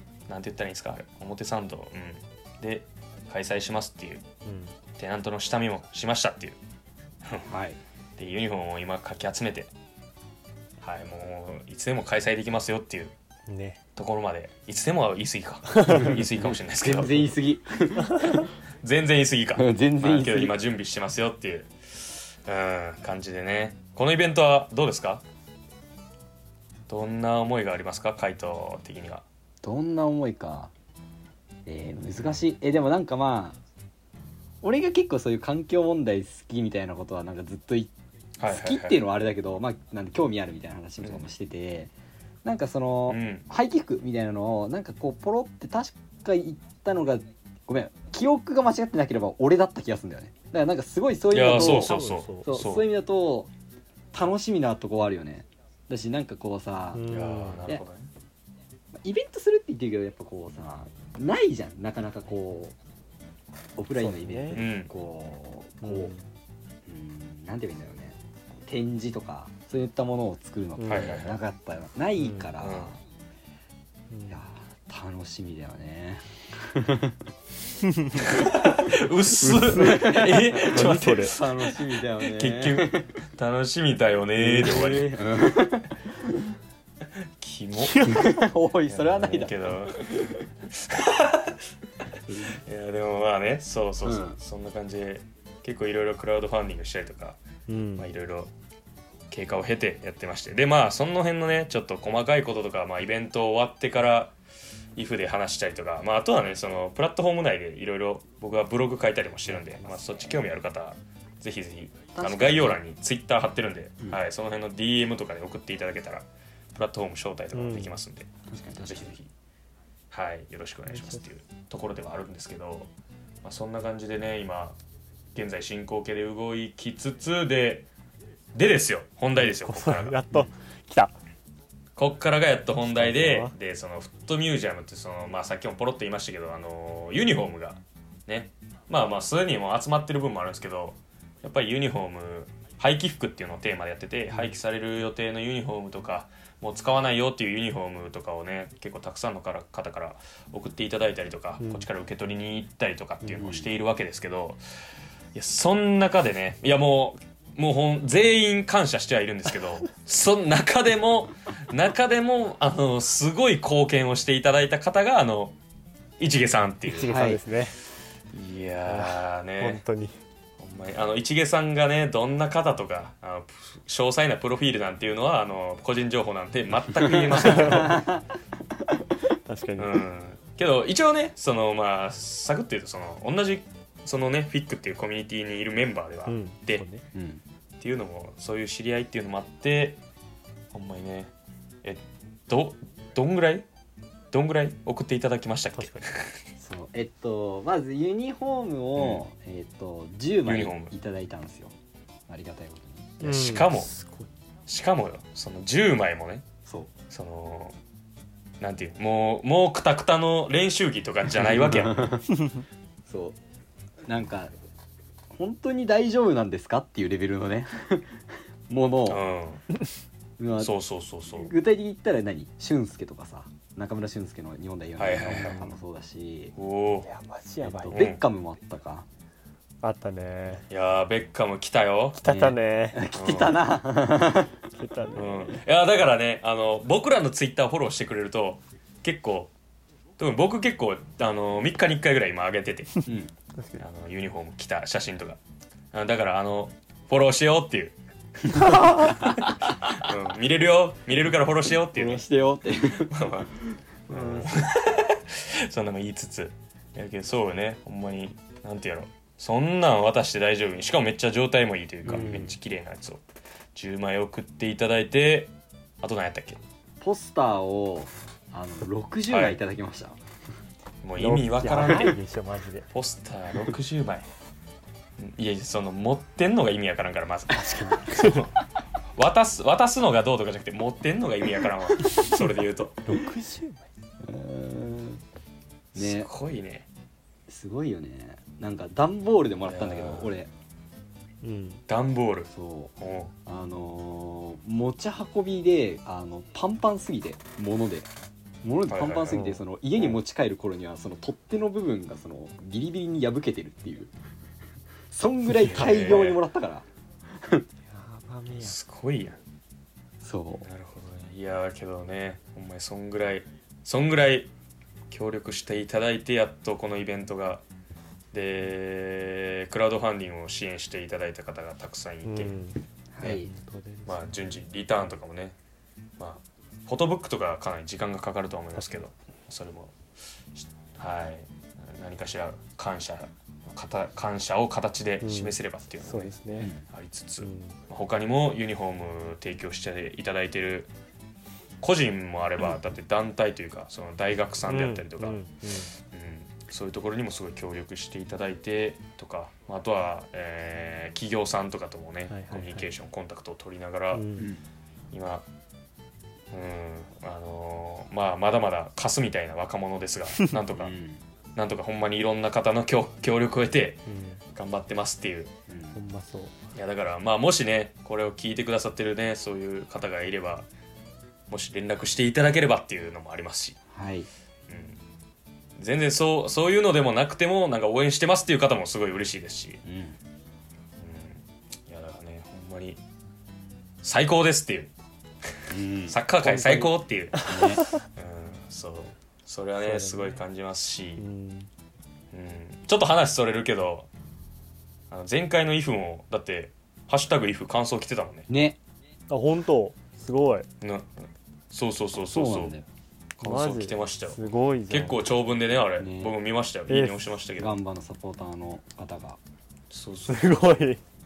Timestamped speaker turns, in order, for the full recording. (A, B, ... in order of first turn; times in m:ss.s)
0:00.3-0:04.2 A
0:04.4-0:04.7 B
0:05.0-0:06.6 A
0:07.5-0:07.8 C
0:08.2-0:09.7 A
0:10.8-0:13.1 A
0:13.5-0:13.8 B
0:14.0-0:17.4 A
0:15.7-0:16.1 B
0:16.0-0:18.5 C
0:18.2-0:18.4 B
0:18.8-0:25.2 A
0:19.6-0:20.6 C
0:26.9-0:29.2 A
0:29.6-0:30.7 C
0:31.7-0:33.6 C
0:32.1-0:32.4 A
0:34.6-0:37.9 C
0:38.4-0:39.0 A
0:38.5-0:41.9 C
0:42.4-0:53.5 C
0:43.1-0:43.4 A
0:51.3-0:52.9 A
0:51.5-0:52.5 B
0:54.1-0:57.0 C
0:56.9-0:57.7 B
0:57.1-0:58.1 A
0:59.0-1:02.8 C
1:03.8-1:06.1 C
1:04.0-1:04.6 B
1:04.5-1:04.9 A
1:05.8-1:06.2 B
1:06.9-1:13.0 C
1:10.8-1:11.2 B
1:10.9-1:11.4 A
1:12.2-1:12.5 B
1:12.6-1:12.9 A
1:14.1-1:14.4 B
1:14.3-1:17.2 C
1:17.8-1:18.2 B
1:18.2-1:25.2 A
1:19.4-1:21.4 B
1:19.7-1:23.1 C
1:24.5-1:26.0 C
1:27.2-1:28.2 A
1:27.8-1:28.4 B
1:28.0-1:30.3 C
1:28.9-1:31.6 A
1:32.5-1:37.4 A
1:34.0-1:34.4 C
1:37.7-1:38.1 B
1:38.0-1:38.5 A
1:39.3-1:44.3 A
1:45.0-1:59.3 A
1:49.5-1:50.2 B
1:52.1-1:52.8 C
1:57.5-1:58.0 B
1:58.5-1:59.1 C
2:00.1-2:02.9 A
2:00.9-2:01.2 B
2:03.4-2:04.8 A
2:05.3-2:07.9 A
2:08.5-2:10.2 A
2:09.4-2:11.2 B
2:12.0-2:34.6 A
2:12.8-2:13.6 B
2:24.3-2:24.6 B
2:31.6-2:31.9 B
2:33.4-2:33.7 C
2:35.3-2:45.6 A
2:46.2-2:47.1 A
2:46.9-2:47.8 B
2:47.0-2:47.4 C
2:48.3-2:49.8 A
2:48.9-2:50.1 B
2:50.6-2:58.1 A
2:57.2-2:58.2 C
2:57.4-2:58.0 B
2:59.5-3:00.0 B
2:59.8-3:06.8 A
3:06.3-3:07.1 B
3:07.1-3:07.4 C
3:07.8-3:10.0 A
3:10.7-3:11.3 A
3:11.8-3:13.7 A
3:14.3-3:16.4 A
3:15.8-3:16.1 B
3:16.6-3:21.7 C
3:19.0-3:19.2 A
3:20.4-3:20.9 A
3:22.3-3:23.2 C
3:23.2-3:24.3 B
3:23.2-3:23.9 A
3:24.7-3:26.5 A
3:26.7-3:26.9 C
3:27.1-3:27.8 A
3:28.6-3:32.2 A
3:31.4-3:32.3 C
3:33.1-3:33.4 C
3:34.1-3:34.5 C
3:35.3-3:38.2 C
3:38.7-3:39.2 C
3:39.1-3:39.6 A
3:40.4-3:40.7 C
3:40.6-3:41.5 A
3:41.4-3:46.6 C
3:45.0-3:45.6 A
3:45.2-3:45.7 B
3:46.6-3:47.1 A
3:47.0-3:48.1 B
3:47.6-3:49.1 C
3:47.9-3:48.2 A
3:49.8-3:50.7 B
3:50.7-3:52.2 A
3:52.2-3:53.0 B
3:52.3-3:54.5 C
3:53.1-3:53.7 A
3:54.7-3:55.6 B
3:55.2-3:59.5 A
4:00.2-4:03.0 A
4:03.6-4:03.8 B
4:03.8-4:05.4 A
4:05.9-4:08.0 A
4:08.6-4:09.1 B
4:08.7-4:09.0 A
4:09.0-4:09.4 C
4:09.8-4:12.3 A
4:11.9-4:13.8 C
4:13.0-4:13.5 A
4:14.1-4:23.2 A
4:22.1-4:22.3 C
4:22.1-4:22.6 B
4:23.8-4:26.6 A
4:27.0-4:30.2 C
4:29.3-4:29.6 A
4:31.0-4:32.2 A
4:31.2-4:32.9 B
4:32.9-4:34.3 A
4:35.2-4:38.5 A
4:37.6-4:38.5 B
4:39.2-4:43.0 A
4:42.0-4:42.5 B
4:43.0-4:43.9 B
4:44.2-4:45.2 C
4:46.0-4:46.3 C
4:46.0-4:46.9 A
4:47.5-4:50.5 C
4:49.6-4:50.3 A
4:51.4-4:51.8 B
4:51.9-4:53.3 A
4:52.5-4:52.9 C
4:53.5-4:58.1 C
4:58.6-5:04.1 C
4:58.9-4:59.5 A
4:59.3-4:59.6 B
5:05.1-5:07.7 C
5:05.6-5:06.4 A
5:07.9-5:08.8 B
5:08.6-5:09.4 A
5:10.2-5:10.7 C
5:10.6-5:14.5 A
5:15.1-5:17.6 A
5:18.3-5:22.6 A
5:22.2-5:24.6 B
5:23.2-5:23.5 C
5:24.1-5:25.6 A
5:26.2-5:30.0 A
5:28.8-5:29.1 B
5:30.5-5:36.4 A
5:35.2-5:36.7 B
5:36.9-5:40.9 A
5:37.4-5:37.8 B
5:41.8-5:45.4 A
5:44.7-5:45.9 B
5:46.0-5:54.3 A
5:52.3-5:52.9 B
5:54.1-5:54.5 B
5:54.4-5:54.6 C
5:55.1-5:55.5 A
5:56.5-6:00.9 A
6:00.8-6:01.2 C
6:01.6-6:05.5 A
6:04.1-6:04.4 B
6:05.7-6:06.0 C
6:05.9-6:06.6 B
6:06.7-6:10.7 A
6:11.5-6:13.8 A
6:13.9-6:14.3 C
6:14.7-6:15.0 A
6:15.8-6:19.8 A
6:19.8-6:20.2 C
6:21.0-6:23.0 A
6:24.0-6:24.9 A
6:25.6-6:27.6 A
6:25.7-6:26.2 C
6:26.4-6:28.0 B
6:27.4-6:27.9 C
6:28.2-6:31.2 A
6:29.8-6:30.4 B
6:31.2-6:31.7 B
6:32.3-6:34.1 A
6:35.1-6:38.5 A
6:38.5-6:38.8 C
6:39.3-6:40.7 B
6:40.8-6:42.8 A
6:42.2-6:42.8 C
6:43.4-6:47.8 A
6:43.4-6:45.2 B
6:46.0-6:46.3 C
6:46.9-6:47.4 B
6:47.6-6:49.4 C
6:49.9-6:50.7 A
6:50.3-6:51.0 B